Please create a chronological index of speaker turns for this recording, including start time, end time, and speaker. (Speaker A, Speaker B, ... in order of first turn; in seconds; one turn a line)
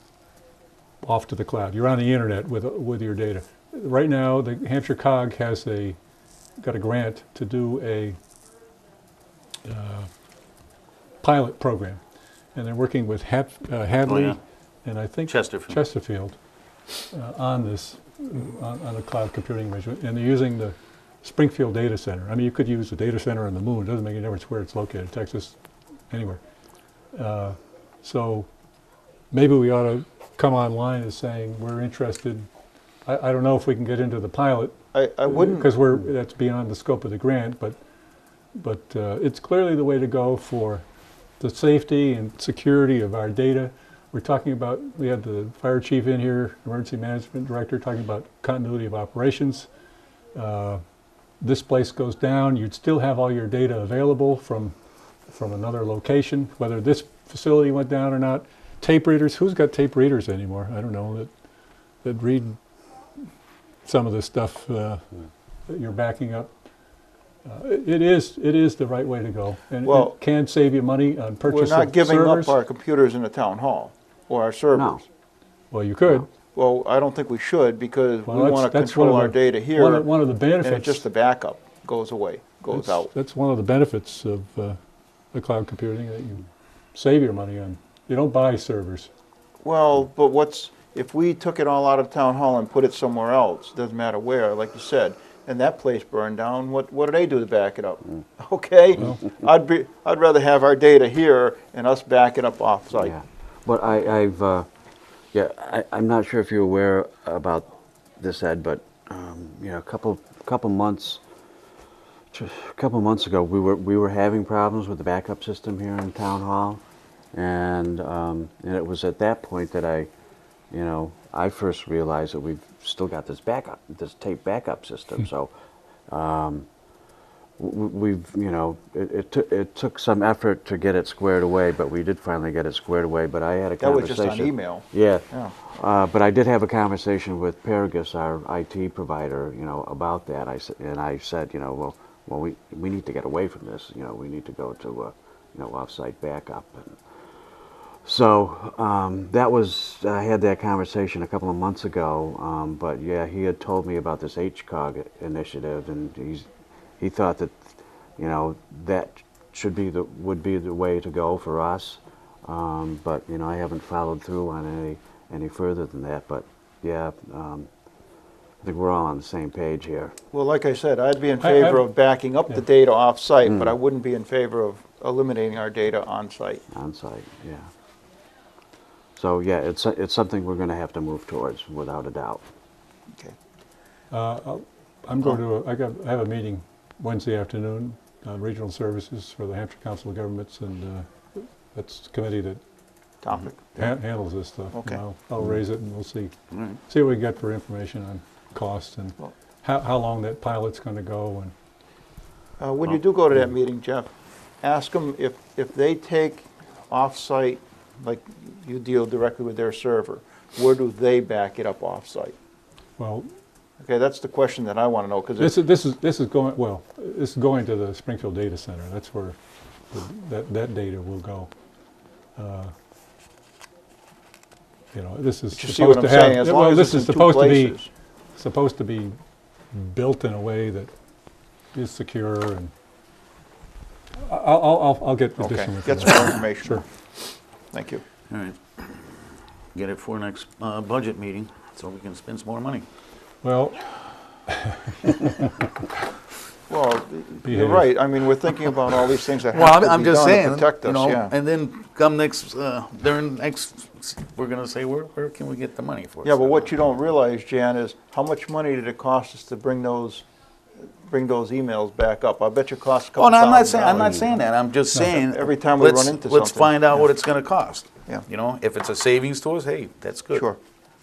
Speaker A: 1.0-6.0
Speaker A: 6.6-8.2
Speaker A: 9.6-10.1
Speaker A: 11.2-12.0
Speaker A: 12.5-16.4
Speaker B: 14.1-14.4
Speaker B: 15.3-15.8
Speaker A: 17.1-25.6
Speaker A: 26.1-26.4
Speaker A: 27.1-28.5
Speaker A: 29.3-32.5
Speaker A: 33.0-37.8
Speaker C: 34.9-35.7
Speaker A: 38.5-40.8
Speaker A: 41.4-49.7
Speaker A: 50.3-50.8
Speaker A: 51.4-54.7
Speaker A: 55.3-61.3
Speaker A: 62.0-62.6
Speaker A: 63.8-65.0
Speaker A: 65.7-66.5
Speaker A: 67.4-72.5
Speaker C: 69.8-70.2
Speaker C: 71.4-75.0
Speaker D: 74.7-75.0
Speaker A: 75.7-76.3
Speaker C: 76.5-80.1
Speaker A: 78.2-81.0
Speaker C: 80.6-83.1
Speaker A: 82.7-84.8
Speaker A: 85.3-89.1
Speaker C: 89.6-103.1
Speaker D: 103.0-104.7
Speaker D: 105.3-111.2
Speaker D: 112.3-116.8
Speaker D: 117.3-120.1
Speaker D: 120.7-125.5
Speaker D: 126.1-126.7
Speaker D: 127.6-147.0
Speaker C: 133.8-135.5
Speaker D: 148.0-167.7
Speaker D: 168.6-170.2
Speaker C: 170.3-176.6
Speaker A: 171.4-171.8
Speaker D: 173.4-173.7
Speaker D: 176.7-177.7
Speaker D: 179.2-182.4
Speaker A: 184.1-192.6
Speaker C: 193.2-193.9
Speaker A: 193.8-196.3
Speaker C: 194.7-195.0
Speaker A: 196.9-201.5
Speaker C: 202.6-204.1
Speaker C: 204.6-212.3
Speaker A: 213.0-213.3
Speaker C: 213.8-215.6
Speaker A: 215.4-219.4
Speaker A: 219.9-221.5
Speaker A: 222.4-222.7
Speaker A: 224.9-227.8
Speaker C: 225.5-227.9
Speaker A: 228.3-229.2
Speaker A: 229.7-230.9
Speaker A: 231.7-232.7
Speaker A: 234.2-236.8
Speaker C: 235.4-236.8
Speaker C: 237.7-238.0
Speaker B: 238.3-239.0
Speaker B: 239.7-242.8
Speaker A: 243.4-243.9
Speaker A: 244.5-245.5
Speaker C: 246.7-251.3
Speaker A: 247.4-247.9
Speaker B: 249.5-256.7
Speaker C: 256.2-260.2
Speaker C: 260.8-264.4
Speaker B: 263.2-270.4
Speaker C: 265.0-267.0
Speaker C: 270.3-270.6